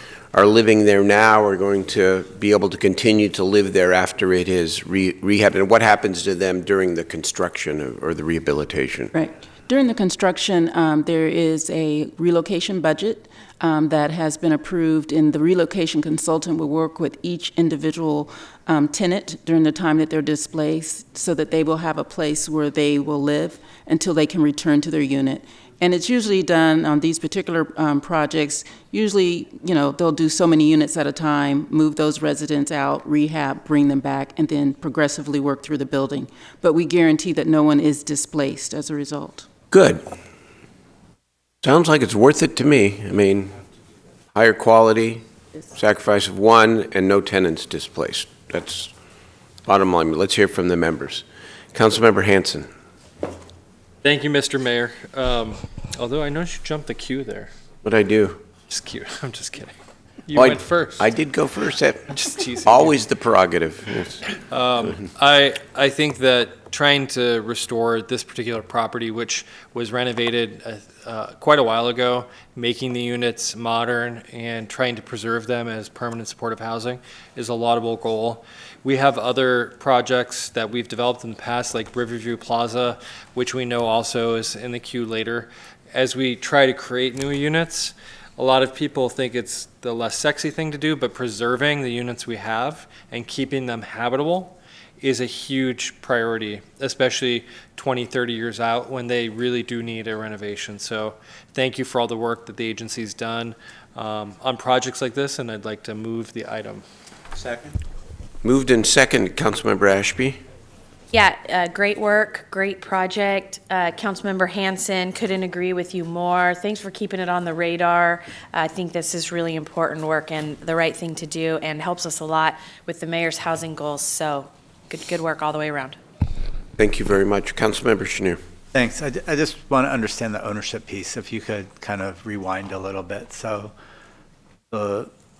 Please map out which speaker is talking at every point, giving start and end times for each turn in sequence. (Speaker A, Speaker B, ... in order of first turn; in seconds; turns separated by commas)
Speaker A: 0.3-9.1, Speaker B: 9.1-39.5, Speaker A: 39.7-40.0, Speaker A: 41.6-43.5, Speaker A: 44.3-48.9, Speaker A: 49.6-52.7, Speaker C: 54.0-57.5, Speaker A: 57.8-58.4, Speaker C: 58.7-59.7, Speaker C: 60.3-61.1, Speaker A: 60.3-62.0, Speaker C: 62.1-63.0, Speaker A: 62.6-64.2, Speaker C: 64.4-106.8, Speaker A: 108.4-110.4, Speaker D: 111.1-126.0, Speaker A: 126.8-128.4, Speaker E: 128.7-133.7, Speaker E: 134.7-135.1